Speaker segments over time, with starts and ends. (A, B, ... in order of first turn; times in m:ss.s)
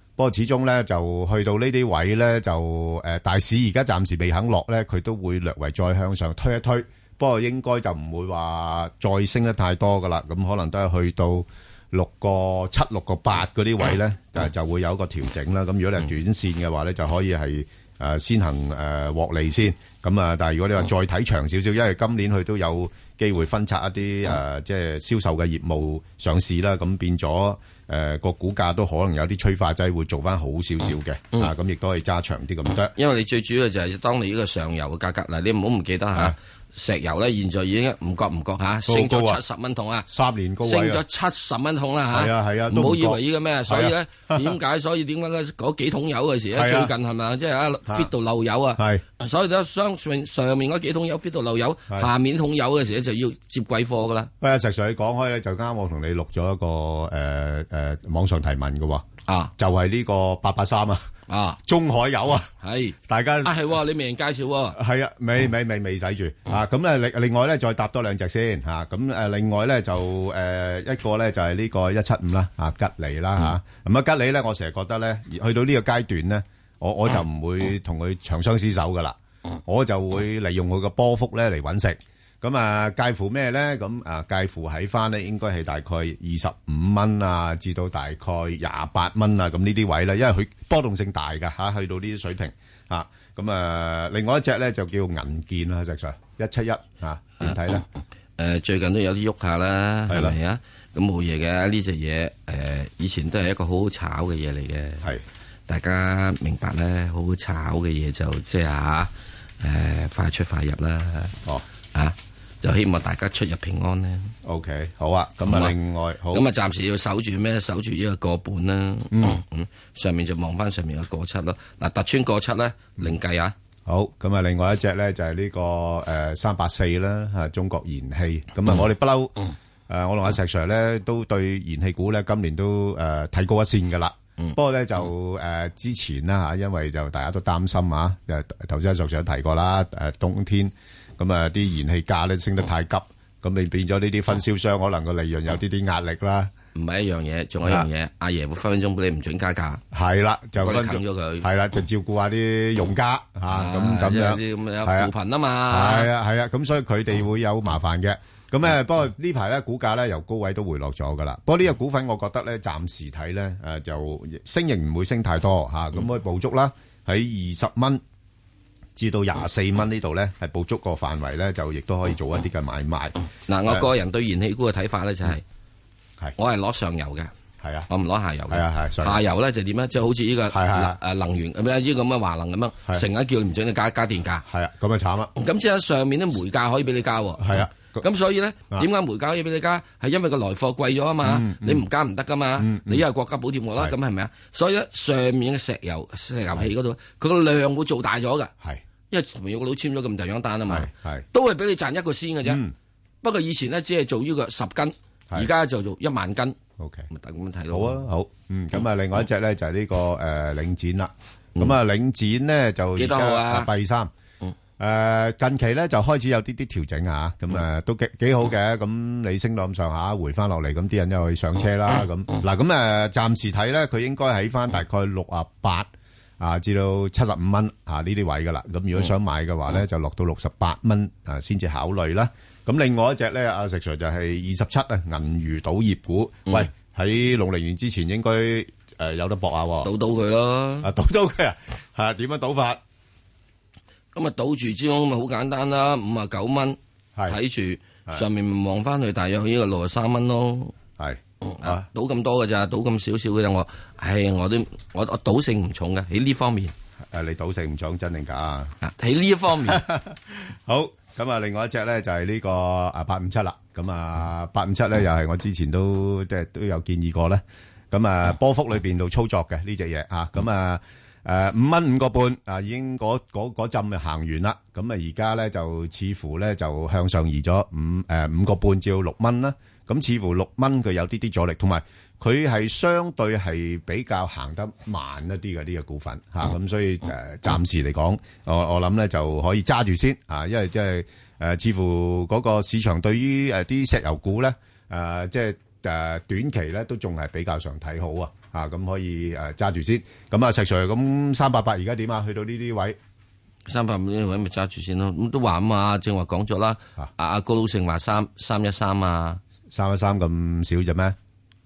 0:00.2-0:32.9 A
0:33.0-0:40.1 B
0:38.9-0:39.4 A
0:40.1-0:41.0 A
0:40.6-0:54.3 B
0:42.1-0:44.6 A
0:46.5-0:46.9 A
0:47.9-0:48.1 A
0:48.8-0:49.0 A
0:54.4-0:59.0 A
0:59.3-0:59.5 B
0:59.6-1:01.1 A
1:01.3-1:01.6 B
1:01.6-1:02.5 A
1:02.6-1:04.8 B
1:03.1-1:03.6 A
1:04.7-1:37.8 A
1:38.4-1:45.1 B
1:40.1-1:40.4 A
1:45.7-1:49.1 B
1:49.6-1:51.4 B
1:51.9-1:54.3 B
1:54.4-1:56.4 A
1:55.5-1:55.7 B
1:56.3-2:03.5 B
1:59.1-1:59.4 A
2:03.9-2:26.5 A
2:26.7-2:29.8 B
2:27.6-2:27.9 A
2:29.9-2:35.1 A
2:30.6-2:31.5 B
2:33.5-2:36.1 B
2:35.7-2:48.0 A
2:49.0-2:53.8 A
2:53.5-2:55.4 B
2:56.4-2:57.3 B
2:57.6-2:57.9 A
2:57.9-3:04.4 B
2:58.5-2:59.2 A
3:00.5-3:01.0 A
3:04.4-3:05.3 A
3:05.4-3:18.5 B
3:07.4-3:08.0 A
3:11.2-3:11.8 A
3:12.6-3:13.0 A
3:19.1-3:22.6 B
3:20.7-3:21.2 A
3:22.4-3:22.7 A
3:23.2-3:26.6 B
3:26.8-3:27.1 A
3:27.1-3:28.0 B
3:27.7-3:34.1 A
3:33.0-3:33.7 B
3:34.8-3:59.9 A
3:59.8-4:00.9 B
4:00.8-4:02.8 A
4:04.1-4:10.7 B
4:11.0-4:11.8 A
4:11.4-4:16.7 B
4:17.1-4:18.7 A
4:18.8-4:19.8 B
4:19.6-5:03.0 A
5:03.7-5:09.4 B
5:09.7-5:11.2 A